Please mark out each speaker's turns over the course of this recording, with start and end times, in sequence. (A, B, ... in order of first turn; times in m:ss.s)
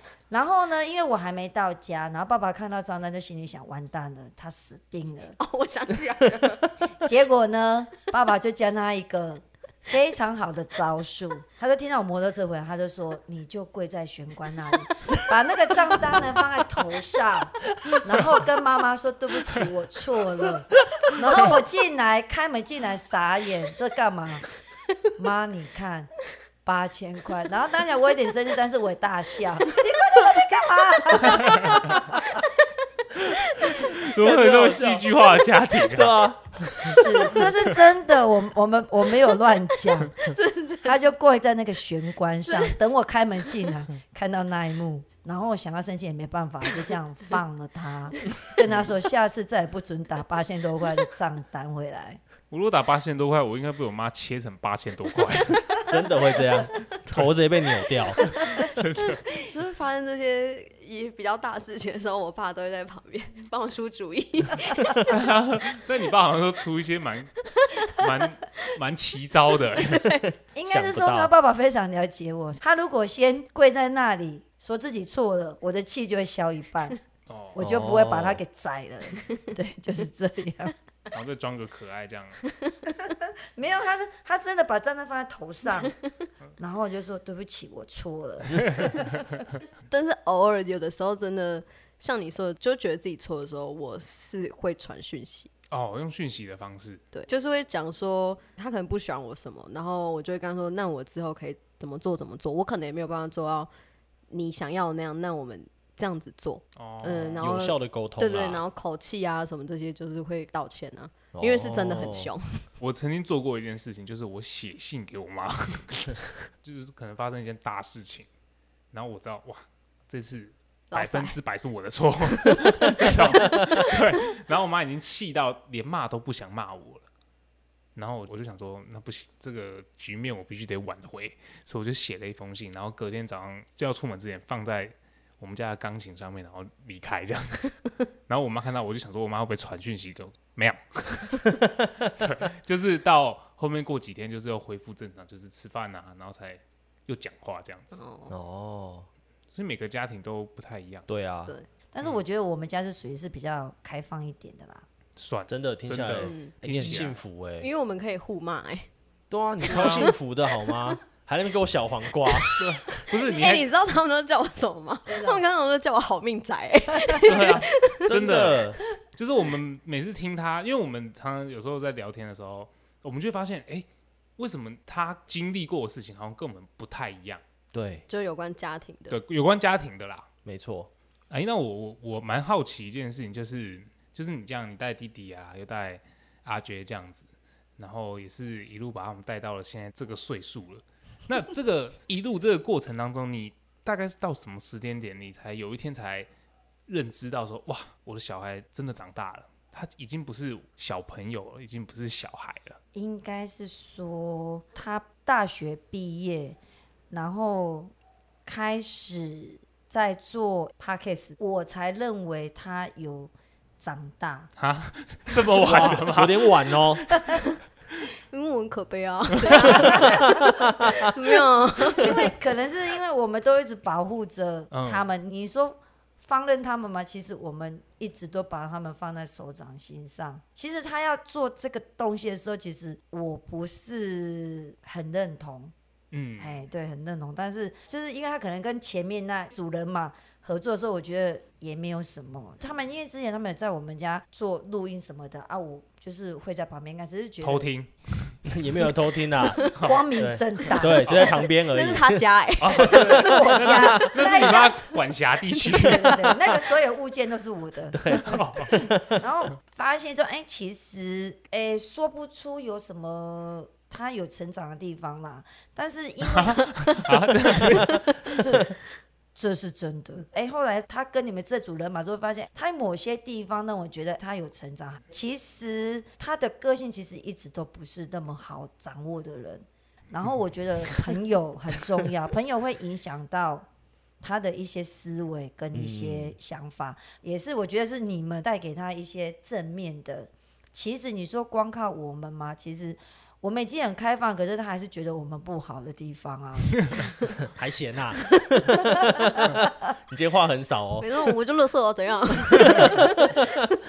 0:00.3-0:05.4 A
0:05.4-0:06.7 B
0:07.0-0:24.5 A
0:25.2-0:32.4 A
0:33.7-0:37.5 C
0:34.0-0:35.1 D
0:35.9-0:36.6 D
0:36.8-0:37.5 B
0:36.9-0:40.3 A
0:40.2-0:41.0 B
0:40.8-0:52.2 A
0:42.5-0:42.7 B
0:52.5-0:55.7 C
0:55.9-0:58.2 D
0:58.2-0:59.2 C
0:59.4-1:05.0 B
1:05.1-1:10.1 C
1:09.8-1:10.2 B
1:10.6-1:17.0 A
1:10.7-1:11.3 D
1:17.3-1:17.6 C
1:17.6-1:20.7 A
1:17.6-1:18.4 D
1:21.1-1:22.4 C
1:23.1-1:26.0 A
1:26.6-1:29.4 A
1:29.9-1:35.5 B
1:35.7-1:37.0 C
1:37.1-1:43.7 B
1:44.3-1:52.6 B
1:46.8-1:47.5 C
1:47.4-1:48.6 D
1:51.3-1:52.3 D
1:52.8-1:58.3 C
1:58.9-2:07.0 C
2:00.9-2:01.4 B
2:08.0-2:28.0 C
2:27.9-2:28.3 B
2:28.3-2:29.1 D
2:29.5-2:31.1 C
2:31.1-2:31.6 D
2:31.9-2:34.8 A
2:35.2-2:37.2 C
2:35.5-2:37.7 D
2:36.2-2:37.0 B
2:37.6-2:38.9 B
2:39.3-2:42.5 D
2:39.6-2:40.1 C
2:39.7-2:40.1 B
2:42.3-2:48.1 B
2:42.6-2:43.7 C
2:45.1-2:45.4 A
2:47.2-2:53.9 C
2:48.0-2:48.8 D
2:54.4-2:57.4 C
2:57.7-2:58.0 D
2:58.1-2:59.2 B
2:59.1-3:00.3 C
3:00.4-3:00.9 D
3:01.3-3:07.3 C
3:07.8-3:16.3 C
3:16.9-3:22.8 C
3:22.9-3:26.6 A
3:27.1-3:27.9 A
3:28.4-3:34.5 A
3:34.6-3:37.3 C
3:35.6-3:37.0 D
3:38.3-3:42.3 B
3:39.5-3:39.8 C
3:40.0-3:41.0 D
3:42.0-3:55.7 A
3:44.7-3:45.1 C
3:56.1-3:56.6 C
3:56.4-4:07.7 A
4:07.4-4:08.4 C
4:08.5-4:12.2 D
4:09.4-4:09.8 B
4:09.6-4:11.2 A
4:09.8-4:10.1 C
4:11.0-4:11.3 C
4:11.2-4:14.8 B
4:12.6-4:16.4 C
4:12.8-4:14.8 A
4:15.6-4:28.8 A
4:18.0-4:19.2 D
4:18.1-4:18.9 C
4:26.2-4:28.4 C
4:29.4-4:43.7 A
4:44.2-4:57.1 A
4:45.7-4:46.4 D
4:57.5-5:01.1 D
4:58.9-4:59.7 A
5:01.0-5:03.4 B
5:02.8-5:03.3 D